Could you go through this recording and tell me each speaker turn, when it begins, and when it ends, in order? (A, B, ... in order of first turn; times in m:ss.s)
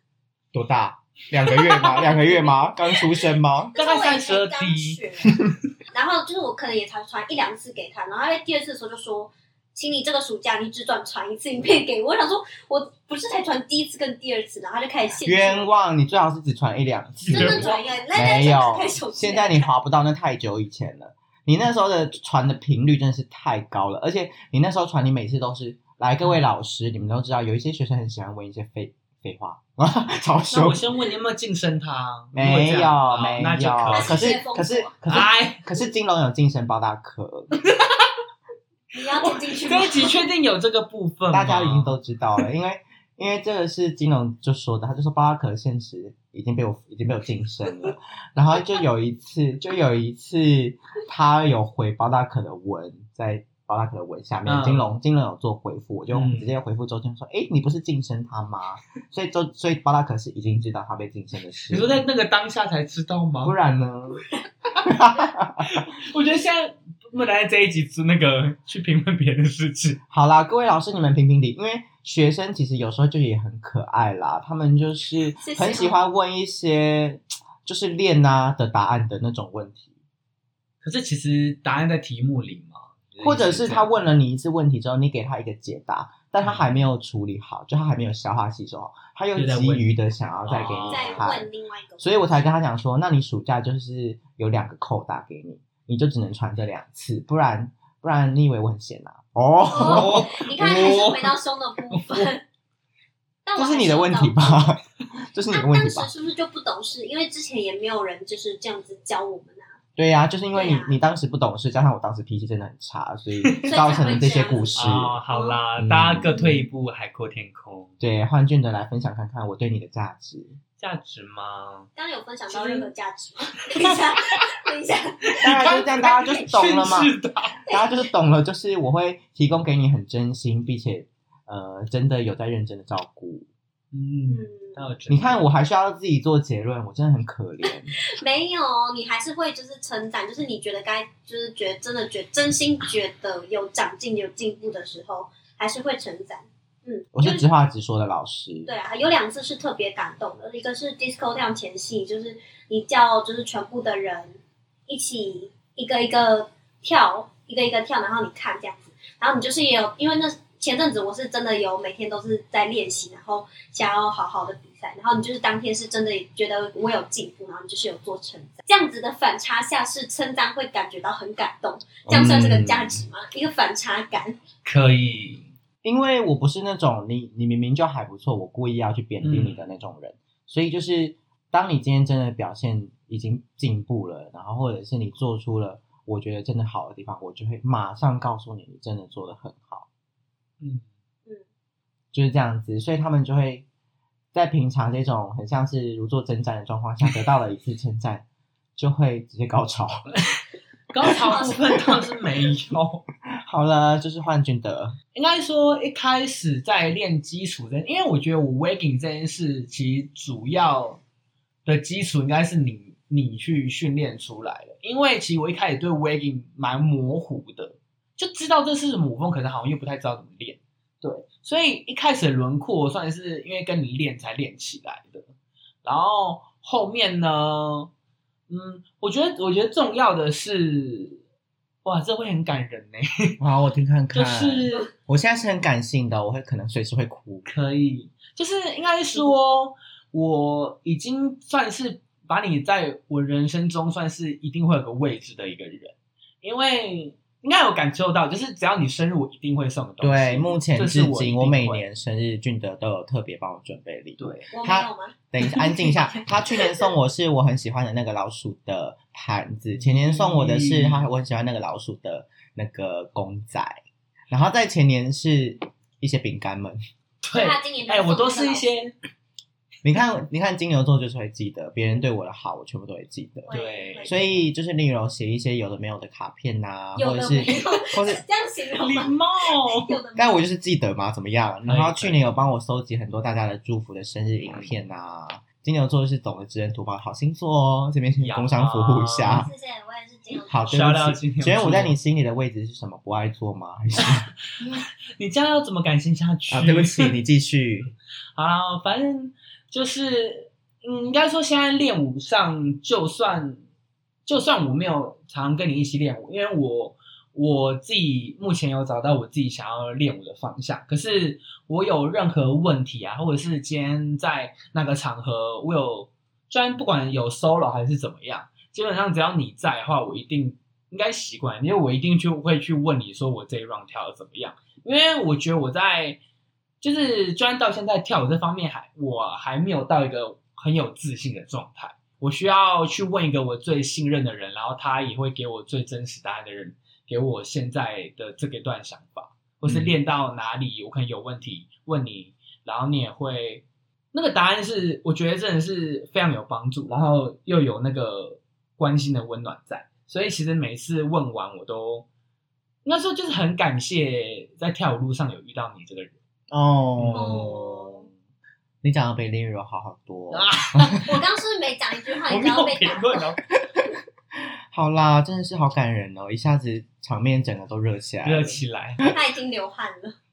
0:00.5-0:03.8 A
0:01.5-0:02.7 B
0:03.7-0:15.7 B
0:03.8-0:05.0 C
0:15.2-0:30.9 A
0:17.2-0:17.8 C
0:17.3-0:19.7 B
0:30.5-0:34.4 C
0:32.4-0:37.6 A
0:33.9-0:35.2 B
0:35.1-0:35.6 C
0:37.6-0:38.1 C
0:38.9-0:40.2 B
0:39.0-0:42.0 C
0:41.3-1:02.0 A
0:54.5-0:54.9 C
0:56.1-0:56.6 C
1:01.7-1:03.6 C
1:03.4-1:04.2 A
1:04.8-1:05.8 A
1:05.7-1:10.0 C
1:10.1-1:19.9 A
1:15.4-1:16.0 B
1:20.8-1:23.9 C
1:23.2-1:31.5 A
1:26.4-1:26.8 C
1:29.4-1:29.9 C
1:30.5-1:31.3 C
1:30.9-1:32.2 B
1:32.0-1:41.1 A
1:39.7-1:42.4 B
1:39.7-1:41.3 C
1:41.9-1:42.3 C
1:43.5-1:44.8 B
1:43.6-1:46.1 A
1:45.5-1:49.8 B
1:50.0-1:55.2 A
1:50.5-1:51.0 B
1:53.5-1:53.9 C
1:53.7-1:55.6 B
1:54.8-1:57.9 C
1:55.8-1:56.3 A
1:58.0-2:00.5 A
2:00.8-2:01.9 C
2:02.0-2:05.4 B
2:02.5-2:02.9 C
2:03.7-2:04.5 C
2:05.3-2:07.6 C
2:05.4-2:07.1 A
2:07.7-2:07.9 B
2:07.7-2:13.5 A
2:13.9-2:15.5 C
2:14.3-2:14.9 B
2:15.1-2:18.0 A
2:18.0-2:27.4 B
2:27.2-2:28.7 A
2:28.7-2:54.4 B
2:52.1-2:53.0 C
2:52.1-2:52.4 A
2:54.6-2:55.4 C
2:55.8-3:09.9 A
2:59.2-2:59.6 C
3:12.1-3:13.6 A
3:14.3-3:18.2 A
3:18.8-3:20.1 A
3:20.9-3:23.0 C
3:21.2-3:21.8 B
3:23.4-3:25.0 A
3:25.2-3:31.0 C
3:31.7-3:45.3 C
3:45.8-3:47.9 C
3:48.5-3:51.2 C
3:51.8-3:53.4 C
3:53.4-3:57.5 A
3:54.1-3:54.9 C
3:57.4-4:11.8 C
4:10.0-4:23.8 A
4:14.2-4:14.5 C
4:14.5-4:15.2 B
4:15.5-4:16.2 C
4:19.7-4:21.1 C
4:24.3-4:26.8 A
4:27.2-4:29.0 C
4:27.3-4:28.9 B
4:29.8-4:38.2 A
4:33.5-4:34.5 B
4:33.5-4:34.1 C
4:37.0-4:40.4 B
4:38.8-4:40.0 C
4:40.2-4:49.5 A
4:41.6-4:42.4 C
4:44.4-4:44.7 C
4:48.2-4:49.5 C
4:49.3-4:50.6 B
4:50.5-4:54.3 A
4:50.7-4:52.0 C
4:54.0-4:57.1 C
4:56.5-4:57.9 A
4:58.4-5:03.6 C
5:04.3-5:26.2 C
5:26.8-5:52.1 C
5:39.6-5:40.0 A
5:52.8-5:56.2 C
5:56.5-5:58.1 A
5:57.0-5:57.5 C
5:57.2-5:58.1 B
5:58.8-6:01.0 A
6:00.3-6:01.1 C
6:00.9-6:03.2 B
6:02.3-6:03.4 C
6:04.4-6:09.1 A
6:08.2-6:09.0 C
6:09.1-6:10.2 B